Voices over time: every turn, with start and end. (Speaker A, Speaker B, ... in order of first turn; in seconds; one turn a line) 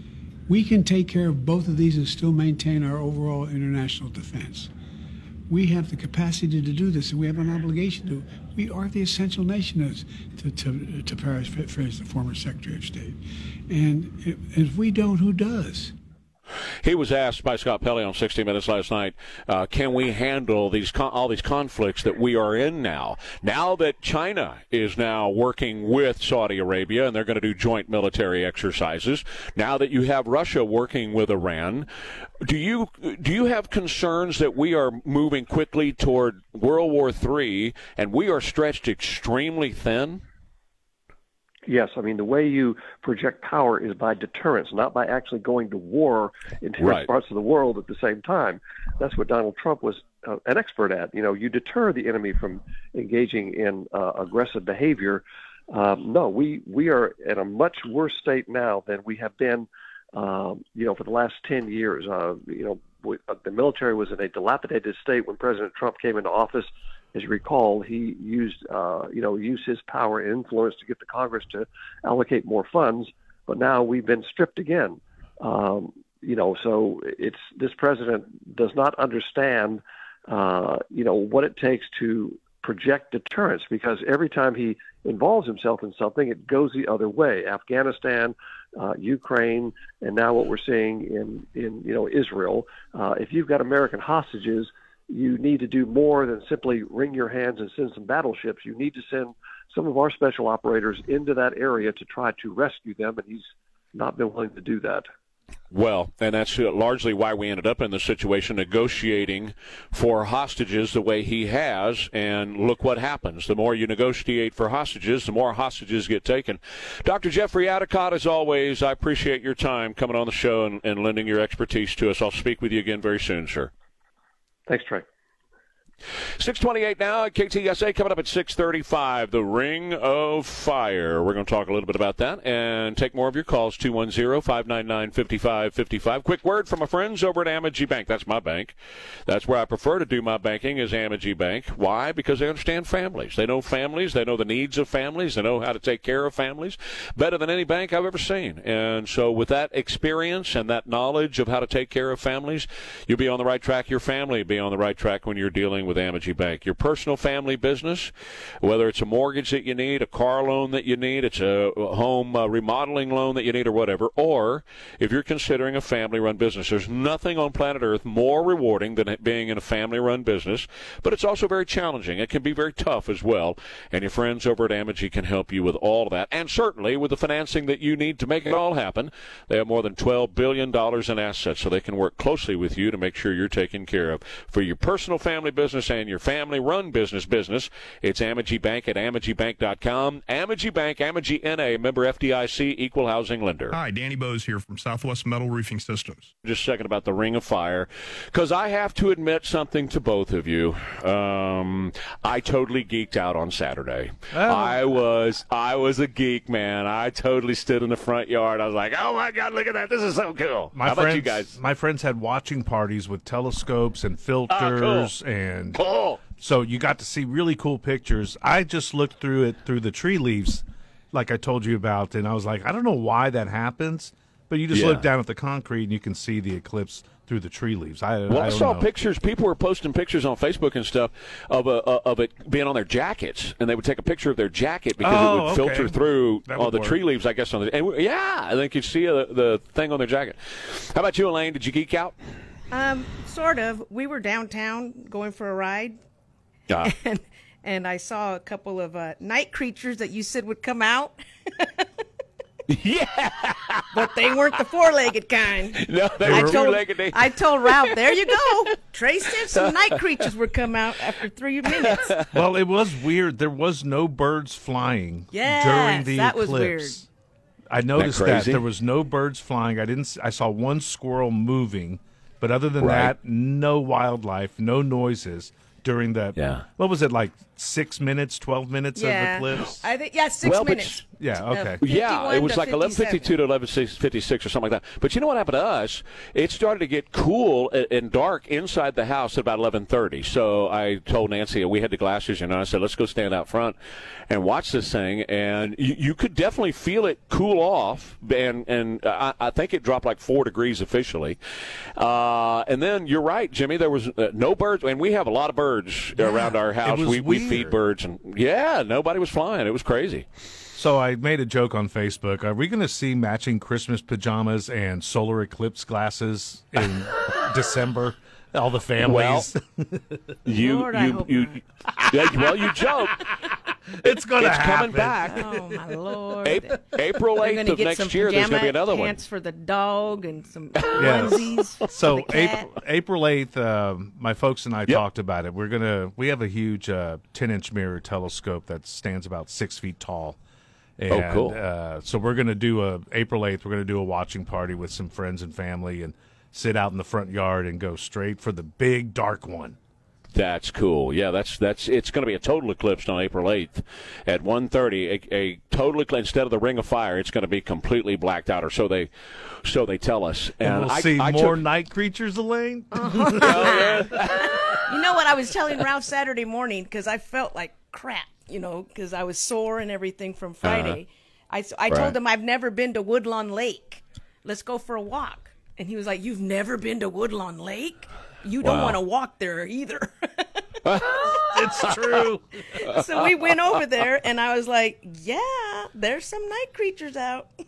Speaker A: 0.5-4.7
Speaker A: 5.5-13.2
Speaker A: 13.7-15.9
Speaker B: 16.8-31.9
Speaker B: 32.4-40.2
Speaker C: 41.7-105.1
Speaker B: 46.8-47.1
Speaker B: 105.7-123.7
Speaker C: 124.7-125.0
Speaker B: 126.4-138.8
Speaker B: 139.3-193.8
Speaker D: 193.7-196.3
Speaker B: 196.4-211.6
Speaker E: 204.3-204.8
Speaker E: 210.7-215.8
Speaker B: 214.5-215.1
Speaker B: 215.8-216.2
Speaker E: 216.4-228.9
Speaker B: 224.7-225.1
Speaker B: 228.3-242.2
Speaker E: 235.0-237.0
Speaker F: 242.7-246.0
Speaker F: 246.8-251.9
Speaker B: 252.7-254.3
Speaker F: 253.9-262.1
Speaker B: 255.7-258.1
Speaker E: 256.2-256.6
Speaker B: 259.5-260.3
Speaker B: 261.7-262.3
Speaker E: 262.3-267.1
Speaker F: 265.3-267.0
Speaker E: 267.7-279.8
Speaker B: 268.0-268.6
Speaker B: 272.8-273.1
Speaker B: 276.4-276.7
Speaker F: 278.9-283.3
Speaker B: 280.4-281.0
Speaker E: 281.2-281.8
Speaker B: 281.8-293.8
Speaker B: 294.3-301.4
Speaker B: 302.0-310.3
Speaker E: 306.2-307.7
Speaker E: 310.7-320.2
Speaker B: 319.0-319.5
Speaker B: 320.4-323.3
Speaker F: 320.6-321.6
Speaker E: 324.0-325.6
Speaker B: 324.4-325.4
Speaker F: 325.1-332.7
Speaker B: 326.4-329.2
Speaker B: 330.8-331.2
Speaker E: 331.0-340.4
Speaker E: 341.0-349.8
Speaker B: 341.1-341.6
Speaker B: 350.3-359.1
Speaker B: 359.6-361.6
Speaker E: 360.6-363.9
Speaker F: 362.9-380.6
Speaker B: 363.4-364.9
Speaker B: 370.6-371.0
Speaker B: 371.9-372.2
Speaker B: 378.6-379.0
Speaker B: 380.9-382.1
Speaker E: 381.5-382.4
Speaker F: 382.8-387.5
Speaker B: 382.8-383.3